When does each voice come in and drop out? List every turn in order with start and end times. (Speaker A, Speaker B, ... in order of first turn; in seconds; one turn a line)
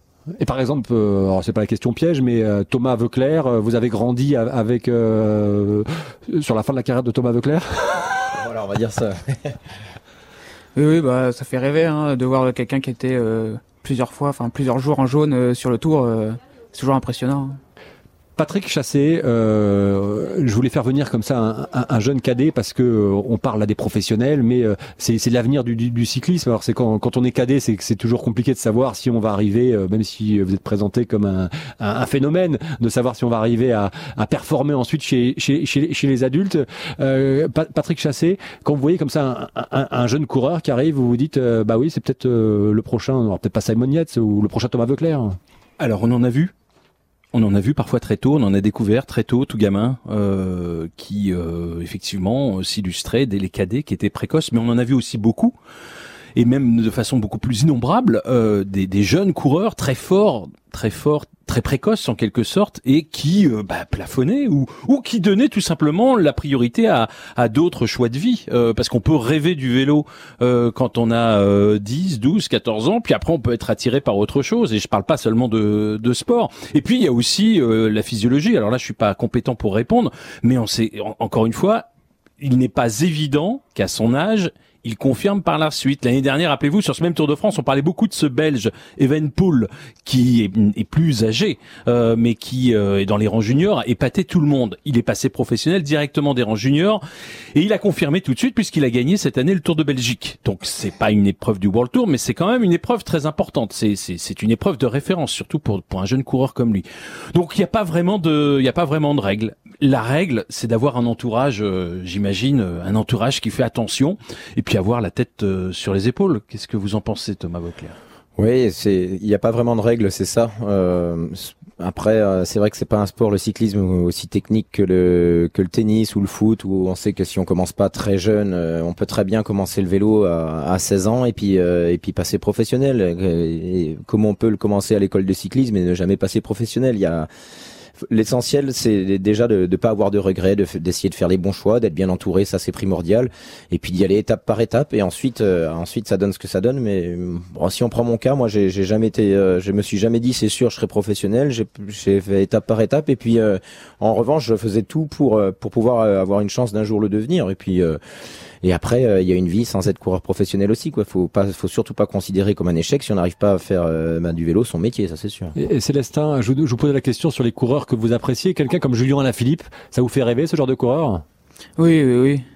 Speaker A: 0.4-8.3
Speaker B: 8.3-9.6
Speaker C: 10.8-17.6
Speaker A: 18.4-45.4
Speaker D: 45.8-46.5
Speaker D: 47.3-55.5
Speaker D: 56.4-81.9
Speaker D: 82.4-97.0
Speaker D: 97.5-118.0
Speaker B: 118.4-137.3
Speaker B: 138.1-158.0
Speaker B: 158.6-165.5
Speaker A: 165.6-171.2
Speaker C: 171.8-172.4